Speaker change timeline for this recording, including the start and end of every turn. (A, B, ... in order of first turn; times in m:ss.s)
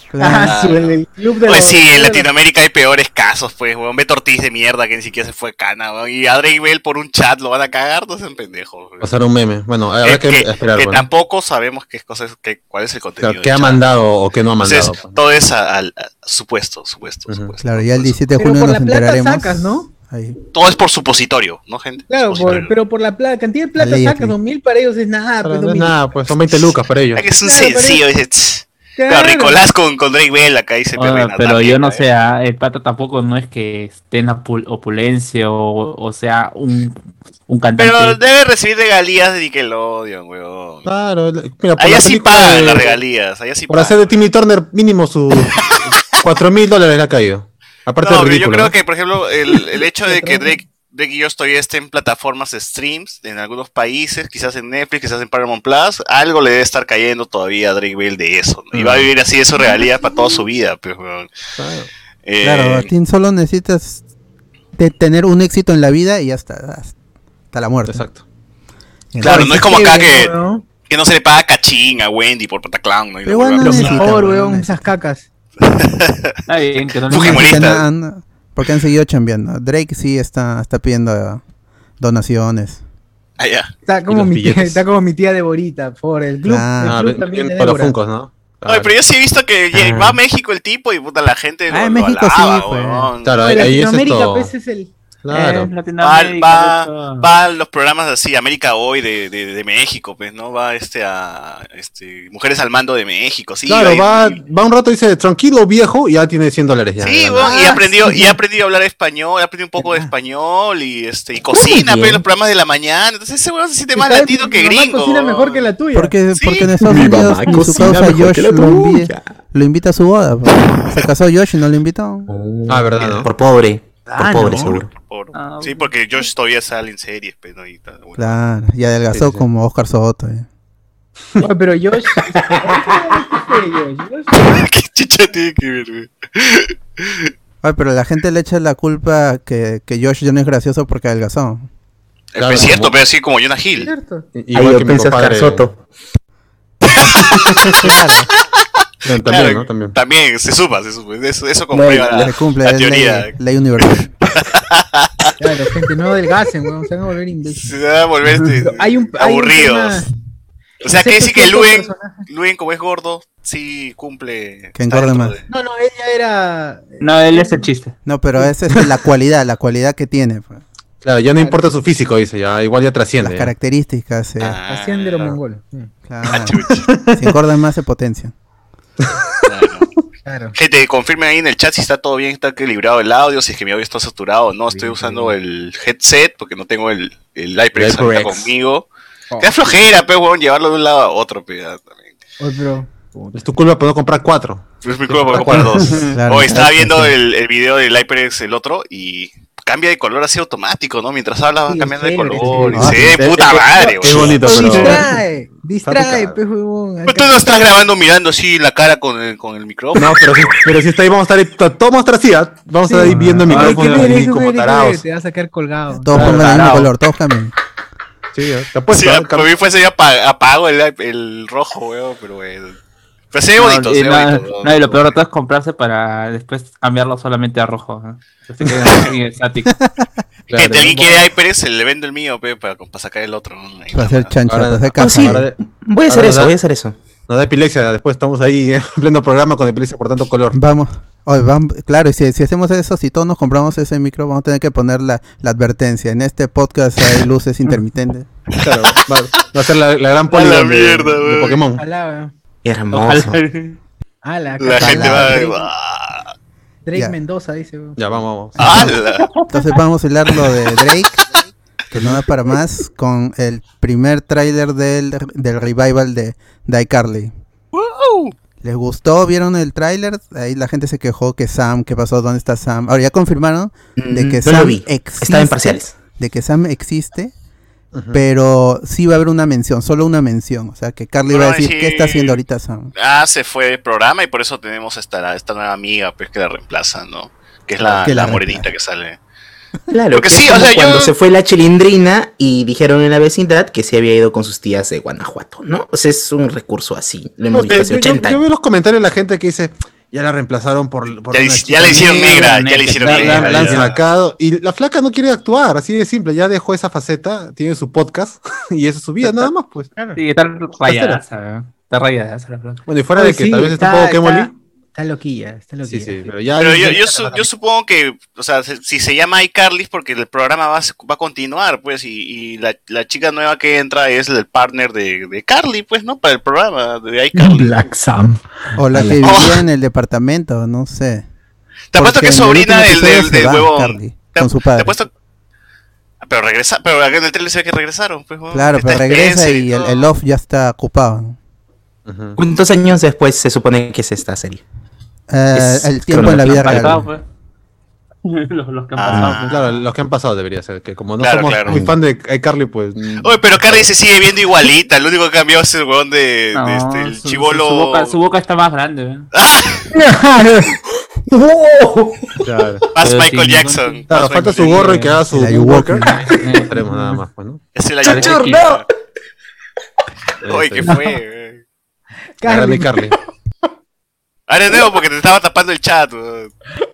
0:00.1-0:00.6 A
0:00.2-0:02.3 B
0:00.4-0:09.2 C
0:09.0-0:11.0 D
0:10.0-0:13.8 C
0:13.2-0:15.2 D
0:14.6-0:18.2 C
0:17.3-0:17.6 D
0:17.6-0:20.4 A
0:18.4-0:19.9 B
0:20.5-0:22.7 C
0:22.1-0:26.1 B
0:23.8-0:24.4 A
0:25.4-0:27.3 D
0:27.2-0:32.0 C
0:27.4-0:28.0 B
0:29.0-0:29.6 B
0:31.0-0:38.2 E
0:37.8-0:40.9 C
0:40.8-0:42.9 D
0:41.8-0:44.1 C
0:43.7-0:48.8 D
0:45.5-0:46.2 C
0:48.0-1:01.3 C
0:50.0-0:50.6 B
0:58.7-0:59.1 D
1:01.6-1:01.9 D
1:02.2-1:02.9 C
1:02.4-1:04.0 A
1:04.8-1:06.9 A
1:07.5-1:08.0 A
1:07.9-1:08.2 D
1:09.1-1:10.6 B
1:09.2-1:10.3 C
1:09.2-1:09.6 A
1:10.9-1:14.2 C
1:13.2-1:14.9 A
1:13.6-1:15.2 B
1:15.6-1:16.4 C
1:16.5-1:17.7 E
1:17.1-1:17.8 C
1:17.2-1:21.4 A
1:22.0-1:22.8 A
1:23.4-1:23.7 C
1:23.9-1:28.0 B
1:24.1-1:24.8 D
1:26.5-1:27.0 A
1:26.8-1:28.9 D
1:28.7-1:33.7 C
1:29.7-1:30.2 F
1:31.7-1:33.1 A
1:33.2-1:34.5 D
1:33.4-1:34.9 B
1:35.2-1:35.7 D
1:35.3-1:37.3 E
1:36.0-1:44.4 C
1:43.7-1:47.6 D
1:47.0-1:55.7 C
1:47.4-1:48.4 B
1:49.8-1:50.1 B
1:51.5-1:52.2 F
1:53.9-1:56.2 B
1:55.9-2:02.3 A
1:56.3-1:56.8 C
1:56.6-1:59.2 F
2:02.3-2:04.9 F
2:02.7-2:03.3 D
2:04.1-2:04.8 B
2:04.5-2:04.8 D
2:04.9-2:08.4 C
2:05.3-2:05.9 E
2:08.2-2:10.5 A
2:09.1-2:09.4 D
2:11.4-2:14.7 B
2:12.4-2:12.8 F
2:14.4-2:17.3 C
2:17.6-2:21.7 A
2:22.3-2:23.9 C
2:22.4-2:23.0 D
2:23.8-2:24.3 B
2:24.3-2:25.8 D
2:24.5-2:25.7 F
2:26.9-2:27.5 C
2:27.0-2:28.0 D
2:27.8-2:28.2 B
2:29.0-2:30.0 D
2:29.2-2:35.4 C
2:31.7-2:32.3 F
2:32.2-2:34.1 A
2:35.4-2:37.8 B
2:37.6-2:40.0 C
2:38.4-2:40.1 B
2:40.8-2:45.4 C
2:40.9-2:42.2 B
2:44.8-2:45.4 A
2:45.5-2:47.7 B
2:47.0-2:47.9 E
2:48.1-2:50.6 A
2:51.0-2:53.5 D
2:51.4-2:51.8 B
2:53.2-2:54.6 A
2:54.4-2:55.3 C
2:54.7-2:55.9 B
2:56.1-2:58.3 A
2:56.3-2:56.9 C
2:56.9-2:57.2 D
2:59.0-2:59.5 D
2:59.5-2:59.9 C
3:00.2-3:00.6 B
3:00.6-3:08.9 C
3:04.7-3:05.4 B
3:07.8-3:08.5 D
3:09.3-3:09.8 B
3:09.4-3:12.1 C
3:12.4-3:13.5 B
3:13.3-3:16.2 D
3:14.8-3:24.8 C
3:16.1-3:17.2 A
3:21.7-3:23.0 B
3:22.4-3:22.7 E
3:22.5-3:25.2 D
3:22.8-3:23.2 A
3:23.8-3:27.5 B
3:24.6-3:25.0 E
3:25.8-3:26.4 D
3:27.1-3:30.7 C
3:30.0-3:35.0 D
3:32.8-3:36.2 B
3:33.5-3:34.1 E
3:35.9-3:37.5 A
3:36.1-3:36.8 D
3:36.2-3:36.9 E
3:38.3-3:39.5 D
3:38.9-3:42.8 C
3:43.3-3:45.2 C
3:43.6-3:49.8 E
3:49.6-3:50.1 A
3:50.5-3:51.2 D
3:50.6-3:54.3 C
3:53.9-3:55.5 A
3:54.5-3:55.6 D
3:55.0-3:57.0 F
3:56.1-3:56.5 D
3:57.3-4:00.6 D
4:00.5-4:08.3 A
4:08.5-4:09.4 C
4:08.6-4:11.8 D
4:10.3-4:11.6 C
4:11.8-4:12.3 B
4:12.6-4:13.4 F
4:12.9-4:13.8 E
4:14.2-4:15.7 B
4:14.6-4:16.3 C
4:14.8-4:15.4 A
4:16.9-4:18.7 B
4:18.0-4:18.9 D
4:18.6-4:21.2 A
4:18.6-4:19.3 C
4:19.2-4:19.5 E
4:21.9-4:27.3 A
4:21.9-4:22.2 D
4:27.7-4:28.3 C
4:28.6-4:37.3 A
4:34.0-4:36.0 F
4:37.9-4:38.2 D
4:38.1-4:42.9 A
4:41.3-4:42.4 C
4:43.0-4:49.2 C
4:47.8-4:48.1 D
4:48.0-4:48.7 A
4:49.9-4:58.4 F
4:50.1-4:51.1 C
4:57.5-5:09.9 D
5:01.3-5:03.9 C
5:01.9-5:03.9 E
5:10.0-5:10.2 B
5:10.2-5:12.8 E
5:10.8-5:11.2 D
5:12.9-5:14.5 D
5:13.2-5:16.3 B
5:15.9-5:17.0 D
5:16.6-5:27.8 C
5:16.8-5:17.5 B
5:27.4-5:29.2 B
5:28.8-5:31.2 A
5:29.2-5:29.6 C
5:31.9-5:35.1 C
5:32.0-5:35.0 A
5:36.2-5:40.1 C
5:38.5-5:41.4 A
5:42.1-5:42.4 D
5:42.4-5:44.6 F
5:45.3-5:47.0 A
5:45.6-5:47.0 F
5:46.2-5:47.2 E
5:48.2-5:49.8 E
5:49.0-5:49.5 C
5:49.5-5:53.9 D
5:51.2-5:51.8 C
5:53.2-5:58.1 C
5:56.5-5:59.3 E
5:59.3-5:59.9 C
5:59.9-6:00.8 B
6:01.3-6:02.4 F
6:02.4-6:02.8 D
6:02.9-6:05.0 C
6:03.0-6:05.2 E
6:04.1-6:07.6 D
6:05.3-6:06.1 A
6:06.2-6:06.8 E
6:07.8-6:08.8 C
6:08.0-6:08.8 F
6:08.0-6:08.6 E
6:10.4-6:10.9 D
6:10.5-6:11.6 C
6:10.8-6:11.2 B
6:12.4-6:13.1 B
6:12.4-6:13.2 D
6:14.5-6:16.5 C